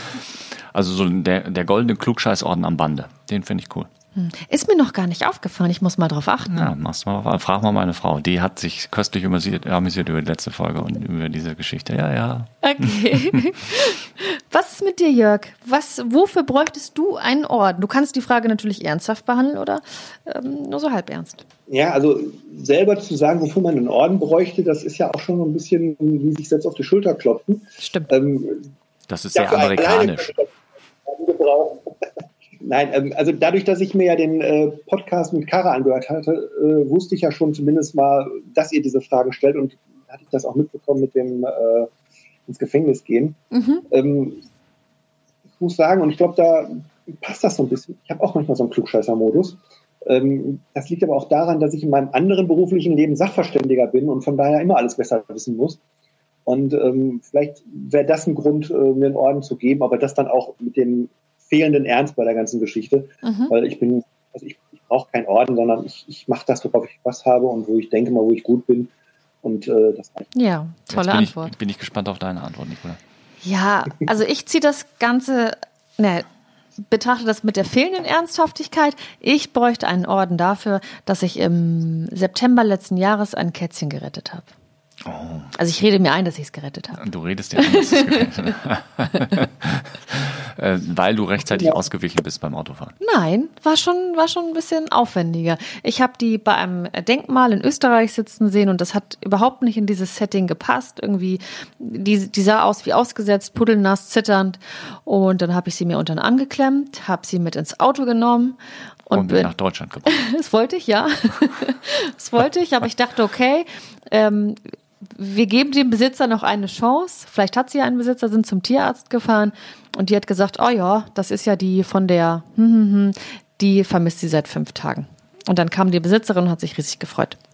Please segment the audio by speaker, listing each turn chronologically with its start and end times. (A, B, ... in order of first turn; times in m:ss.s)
0:00.7-0:03.9 A
0:04.2-0:06.7 B
0:06.5-0:13.4 A
0:12.6-0:21.4 B
0:21.7-0:28.7 C
0:27.8-0:28.1 B
0:29.1-0:30.3 A
0:29.4-0:30.5 C
0:31.0-0:41.9 C
0:42.5-0:44.4 C
0:43.5-0:43.8 B
0:45.6-0:55.8 C
0:56.5-1:08.9 C
1:03.2-1:03.5 B
1:09.4-1:10.3 C
1:10.4-1:11.5 B
1:10.9-1:13.0 A
1:13.4-1:16.2 B
1:16.9-1:24.5 B
1:25.0-1:25.5 A
1:25.6-1:27.0 B
1:27.0-1:33.0 A
1:27.6-1:28.4 B
1:33.0-1:49.5 B
1:49.1-1:50.2 A
1:50.1-2:07.4 B